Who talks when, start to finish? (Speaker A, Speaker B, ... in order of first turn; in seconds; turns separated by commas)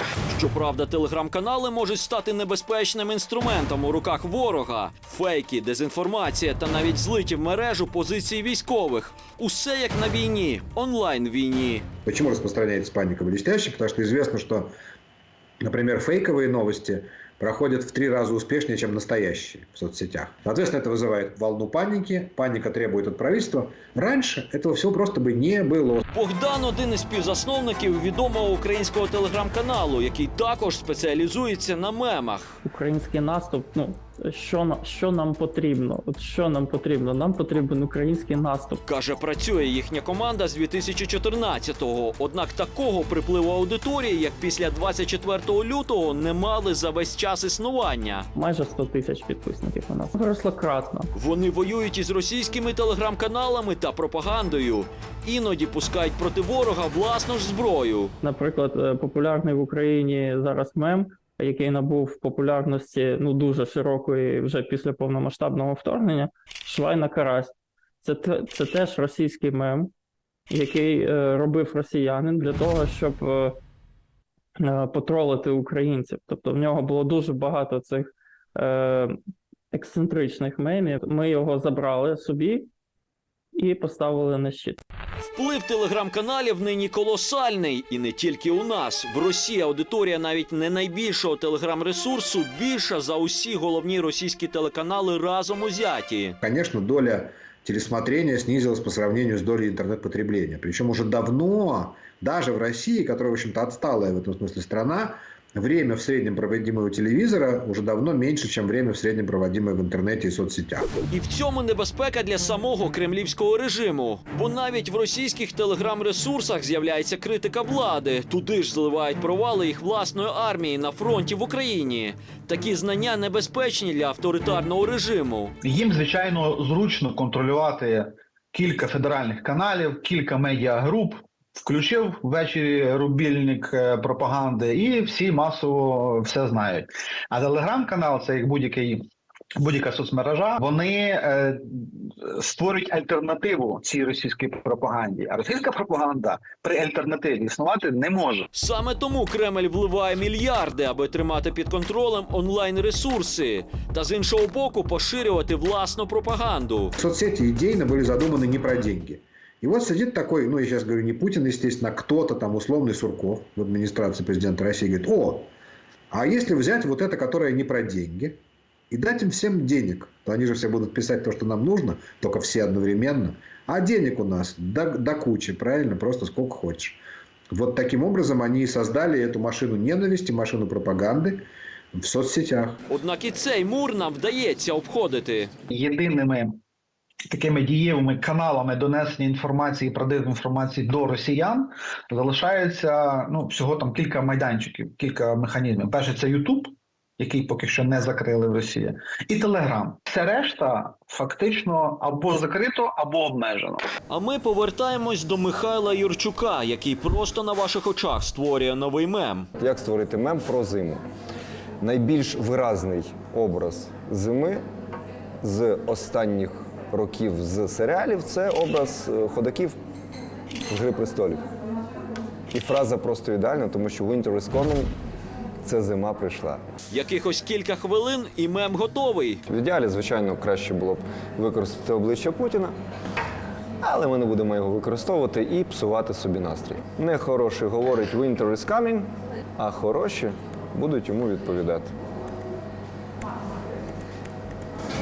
Speaker A: 0.3-11.8, Speaker B: 12.1-14.7, Speaker B: 15.6-26.0, Speaker A: 26.1-32.6, Speaker C: 32.6-38.8, Speaker A: 38.8-48.3, Speaker C: 48.3-51.1, Speaker A: 51.1-58.1, Speaker C: 58.2-69.9, Speaker C: 70.5-73.5, Speaker C: 74.6-79.1, Speaker C: 79.7-82.7, Speaker C: 83.5-84.8, Speaker A: 85.3-96.4, Speaker B: 96.4-110.9, Speaker A: 111.1-125.5, Speaker D: 125.6-148.5, Speaker A: 148.5-156.9, Speaker B: 157.0-165.5, Speaker B: 166.1-168.4, Speaker B: 168.9-177.0, Speaker B: 177.5-182.8, Speaker A: 182.9-185.5, Speaker D: 185.7-186.6, Speaker D: 187.3-203.8, Speaker A: 204.1-209.5, Speaker E: 209.6-211.0, Speaker E: 211.8-214.6, Speaker E: 215.4-219.8, Speaker E: 220.7-221.4, Speaker E: 222.5-224.9, Speaker E: 225.6-226.6, Speaker A: 226.9-229.4, Speaker E: 229.5-232.7, Speaker E: 233.8-241.9